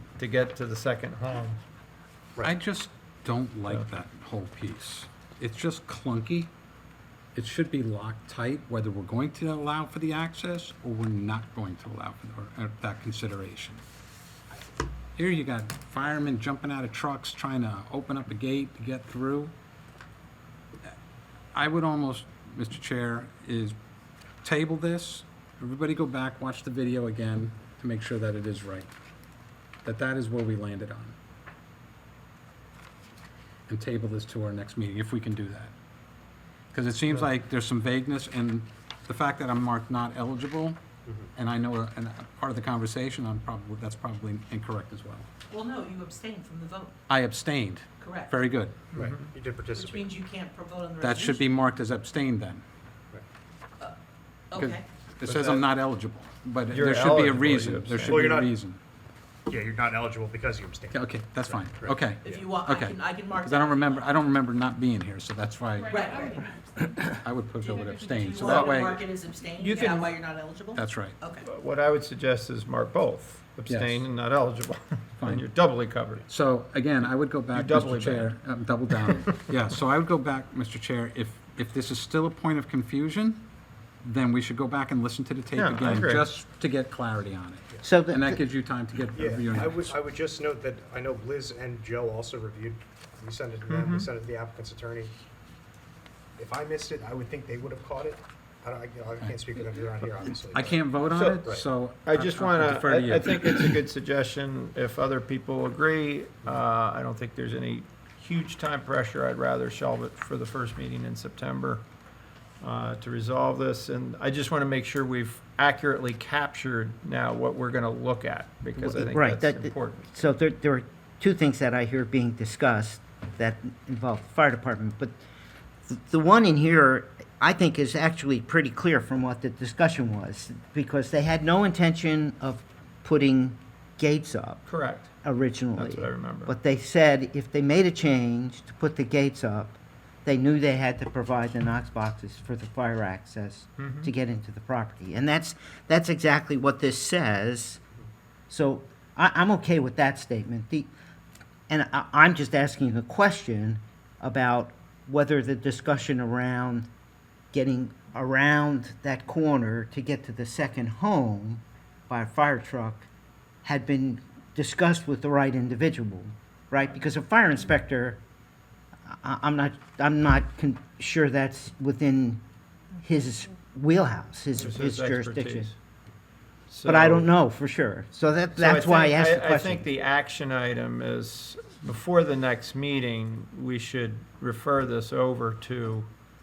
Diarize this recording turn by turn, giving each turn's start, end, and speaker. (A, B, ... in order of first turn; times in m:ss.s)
0:00.2-0:01.6 A
0:02.4-0:06.5 B
0:07.3-0:13.8 B
0:15.2-0:19.5 B
0:21.5-0:23.7 B
0:24.4-0:28.9 B
0:29.8-0:31.1 B
0:33.7-0:35.7 B
0:36.7-0:40.8 B
0:41.3-0:45.2 B
0:45.5-0:47.0 C
0:47.1-0:48.8 B
0:48.0-0:48.4 C
0:48.9-0:49.3 A
0:48.9-0:50.1 D
0:49.7-0:51.4 C
0:51.0-0:52.6 B
0:54.5-0:54.8 C
0:54.6-0:58.8 B
0:55.2-0:55.6 A
0:56.7-0:58.3 A
0:58.0-0:58.5 D
0:59.5-1:02.4 D
1:00.9-1:09.0 B
1:02.2-1:04.2 C
1:05.9-1:06.5 C
1:08.3-1:11.4 C
1:08.4-1:08.7 A
1:09.6-1:10.1 A
1:10.7-1:11.2 B
1:11.4-1:16.2 A
1:13.7-1:14.0 B
1:15.2-1:15.5 B
1:16.3-1:23.4 B
1:17.5-1:18.3 A
1:24.0-1:29.9 B
1:25.5-1:26.3 A
1:27.8-1:28.4 E
1:29.1-1:35.1 D
1:33.7-1:34.1 A
1:36.4-1:40.8 D
1:40.2-1:43.8 B
1:41.1-1:41.4 A
1:42.0-1:51.8 A
1:52.6-2:00.1 A
1:58.8-2:05.1 E
2:05.9-2:14.6 E
2:14.7-2:15.1 A
2:15.2-2:27.8 E
2:15.7-2:16.5 A
2:23.8-2:24.1 A
2:28.5-2:30.9 E
2:31.7-2:36.9 E
2:37.5-2:43.1 E
2:43.6-2:48.2 E
2:49.1-2:52.4 E
2:53.0-2:55.7 E
2:54.5-2:55.7 A
2:56.7-2:57.3 A
2:56.8-2:59.9 E
2:58.6-3:06.1 A